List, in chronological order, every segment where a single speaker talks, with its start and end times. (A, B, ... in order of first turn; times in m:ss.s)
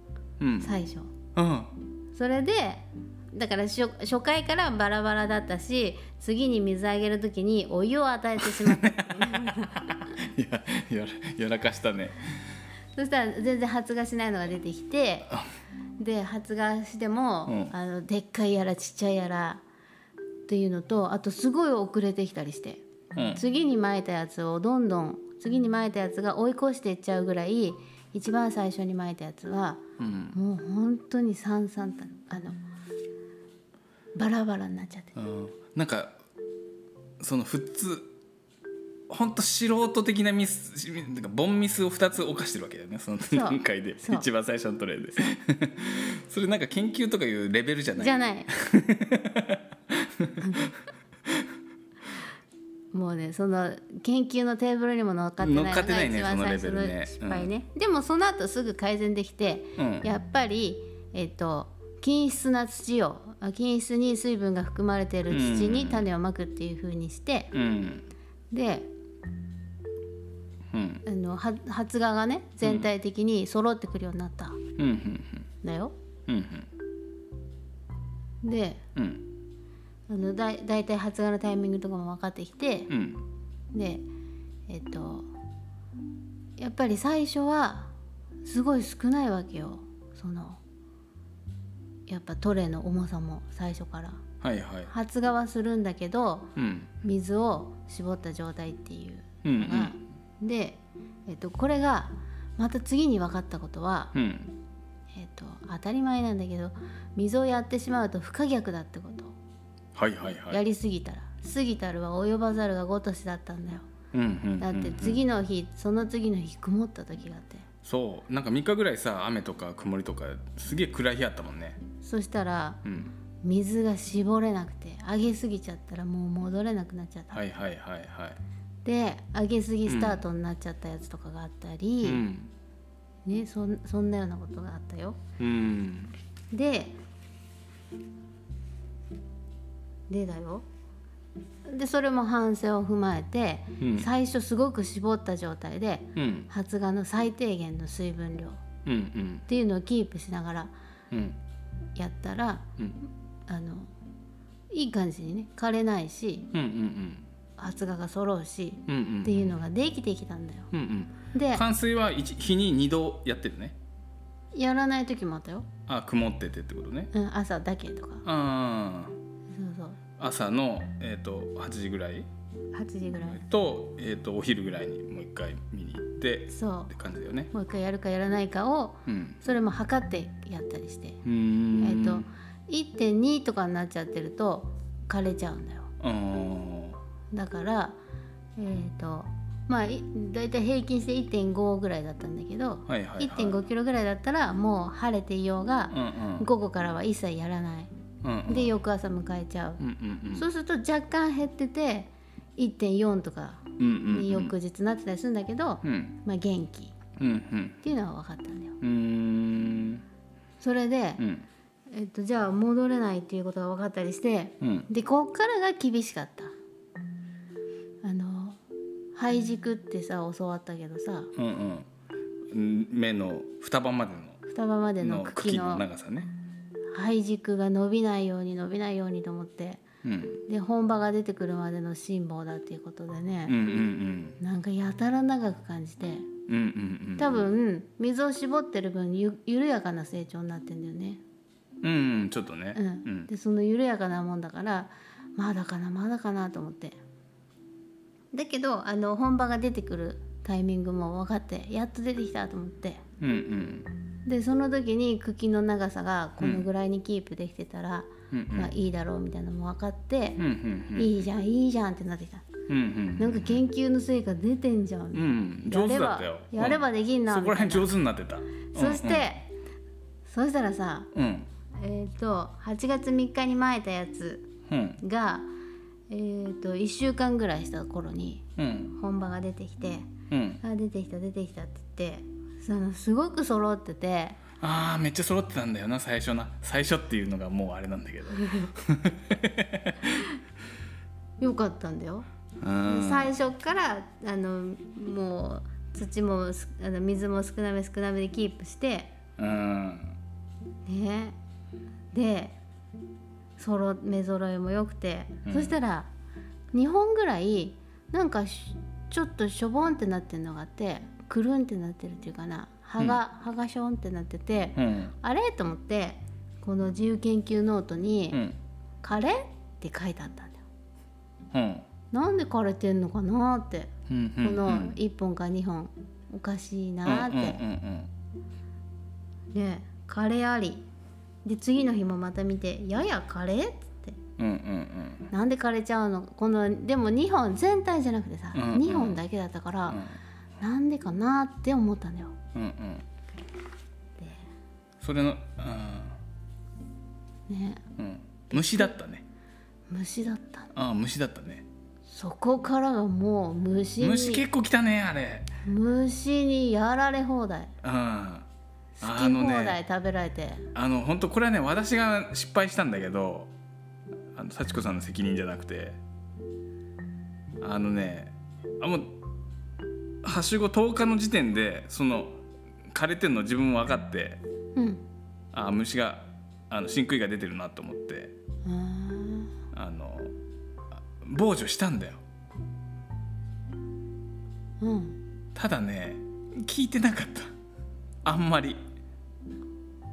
0:00.4-0:00.7 A
0:00.6-0:01.1 B
0:01.4-0:01.7 A
0:02.1-0:10.0 B
0:08.4-0:12.2 A
0:13.0-0:15.3 B
0:16.0-0:19.6 B
0:17.5-0:17.7 A
0:20.5-0:29.8 B
0:23.1-0:23.4 A
0:30.0-0:30.4 A
0:30.3-0:32.6 B
0:34.2-0:35.1 B
0:35.2-0:36.2 A
0:37.2-0:38.1 A
0:39.1-0:50.7 A
0:43.3-0:44.3 B
0:48.0-0:48.5 B
0:50.4-0:50.7 B
0:52.9-1:07.5 B
0:55.4-0:57.5 A
0:59.8-1:00.1 A
1:05.3-1:06.1 A
1:07.5-1:08.1 A
1:08.5-1:08.9 B
1:10.7-1:11.0 A
1:11.0-1:14.6 B
1:12.6-1:12.9 A
1:14.8-1:15.5 A
1:15.6-1:15.9 B
1:16.3-1:16.7 A
1:18.4-1:18.8 B
1:19.0-1:19.2 A
1:20.1-1:22.9 B
1:22.9-1:23.2 A
1:23.7-1:24.0 B
1:24.7-1:25.3 B
1:26.6-1:27.9 B
1:28.4-1:30.6 B
1:32.1-1:34.2 B
1:34.4-1:34.9 A
1:34.9-1:36.5 B
1:36.6-1:36.9 A
1:37.0-1:44.1 B
1:39.4-1:39.9 A
1:44.1-1:44.5 A
1:45.1-1:49.4 B
1:50.0-1:50.6 A
1:50.5-1:53.9 B
1:54.1-1:55.2 A
1:54.6-1:57.7 B
1:57.8-2:01.8 A
2:02.0-2:02.8 B
2:02.8-2:03.1 A
2:03.4-2:07.4 B
2:07.3-2:08.4 A
2:08.8-2:12.3 B
2:09.9-2:10.2 A
2:12.0-2:12.5 A
2:13.3-2:15.2 B
2:15.4-2:16.1 A
2:16.5-2:17.0 B
2:20.1-2:20.6 B
2:21.7-2:28.6 B
2:23.8-2:24.1 A
2:26.2-2:26.5 A
2:28.9-2:29.4 A
2:29.5-2:30.7 B
2:31.1-2:31.4 A
2:32.0-2:32.7 B
2:33.5-2:33.9 B
2:34.7-2:36.5 B
2:36.5-2:37.2 A
2:37.6-2:40.7 B
2:38.9-2:39.4 A
2:40.7-2:43.8 A
2:41.3-2:41.7 B
2:44.5-2:45.7 B
2:45.9-2:47.1 A
2:47.1-2:48.2 B
2:48.2-2:49.2 A
2:49.5-2:50.0 B
2:50.2-2:52.3 A
2:52.7-2:53.4 B
2:53.3-2:57.5 A
2:56.5-2:56.9 B
2:57.5-3:01.2 B
2:59.1-2:59.4 A
3:01.2-3:02.3 A
3:01.8-3:05.9 B
3:06.0-3:07.0 A
3:07.3-3:08.0 B
3:08.6-3:17.9 B
3:12.9-3:13.6 A
3:15.9-3:16.5 A
3:18.2-3:18.7 A
3:18.5-3:19.8 B
3:19.8-3:20.5 A
3:20.3-3:27.0 B
3:23.8-3:24.5 A
3:25.8-3:26.2 A
3:27.2-3:27.8 A
3:27.8-3:28.8 B
3:28.8-3:30.0 A
3:30.6-3:31.2 B
3:31.2-3:31.5 A
3:31.9-3:36.5 B
3:34.6-3:34.9 A
3:38.0-3:38.6 B
3:39.2-3:41.3 B
3:41.4-3:41.9 A
3:42.5-3:44.4 A
3:44.5-3:45.9 B
3:45.0-3:46.3 A
3:46.9-3:49.8 B
3:50.0-3:50.4 A
3:50.5-3:53.8 B
3:53.5-3:54.4 A
3:54.4-3:56.3 B
3:56.5-3:57.5 A
3:57.2-4:01.2 B
4:01.8-4:03.3 A
4:02.8-4:07.0 B
4:08.3-4:13.0 B
4:13.2-4:13.9 A
4:14.2-4:20.4 B
4:16.4-4:16.7 A
4:18.3-4:18.7 A
4:20.4-4:21.2 A
4:21.0-4:22.5 B
4:22.7-4:23.6 A
4:23.2-4:27.9 B
4:25.1-4:29.3 A
4:28.7-4:29.5 B
4:30.3-4:31.1 B
4:31.1-4:31.5 A
4:31.8-4:34.5 B
4:34.7-4:35.0 A
4:35.0-4:35.5 B
4:36.1-4:40.1 B
4:38.6-4:39.0 A
4:40.3-4:40.6 A
4:40.6-4:44.4 B
4:44.6-4:50.3 A
4:48.3-4:48.7 B
4:51.4-4:52.3 B
4:52.6-4:53.4 A
4:52.9-4:59.1 B
4:59.4-5:00.2 A
5:00.9-5:01.4 B
5:02.1-5:02.6 B
5:03.6-5:06.1 B
5:05.5-5:05.8 A
5:06.7-5:18.4 B
5:14.8-5:15.1 A
5:18.3-5:18.6 A
5:19.0-5:20.6 B
5:21.5-5:21.8 A
5:22.1-5:27.6 B
5:24.1-5:25.0 A
5:27.0-5:28.1 A
5:29.5-5:30.8 B
5:31.4-5:34.2 B
5:34.4-5:35.3 A
5:35.3-5:40.0 B
5:38.5-5:39.2 A
5:39.9-5:40.2 A
5:40.6-5:42.4 B
5:42.5-5:43.0 A
5:45.0-5:46.2 A
5:47.5-5:47.8 B
5:48.0-5:49.2 A
5:48.5-5:48.9 B
5:49.9-5:50.7 B
5:50.8-5:51.7 A
5:52.1-5:54.4 B
5:54.0-5:55.5 A
5:55.6-5:57.7 B
5:57.8-5:58.5 A
5:59.0-6:00.7 B
5:59.0-5:59.8 A
6:00.7-6:03.5 A
6:04.3-6:06.0 A
6:07.6-6:09.2 A
6:10.2-6:14.4 A
6:14.8-6:15.0 B
6:15.5-6:18.4 A
6:18.6-6:19.5 B
6:19.7-6:20.3 A
6:21.2-6:22.2 A
6:24.8-6:25.2 B
6:25.6-6:27.5 A
6:28.2-6:28.8 A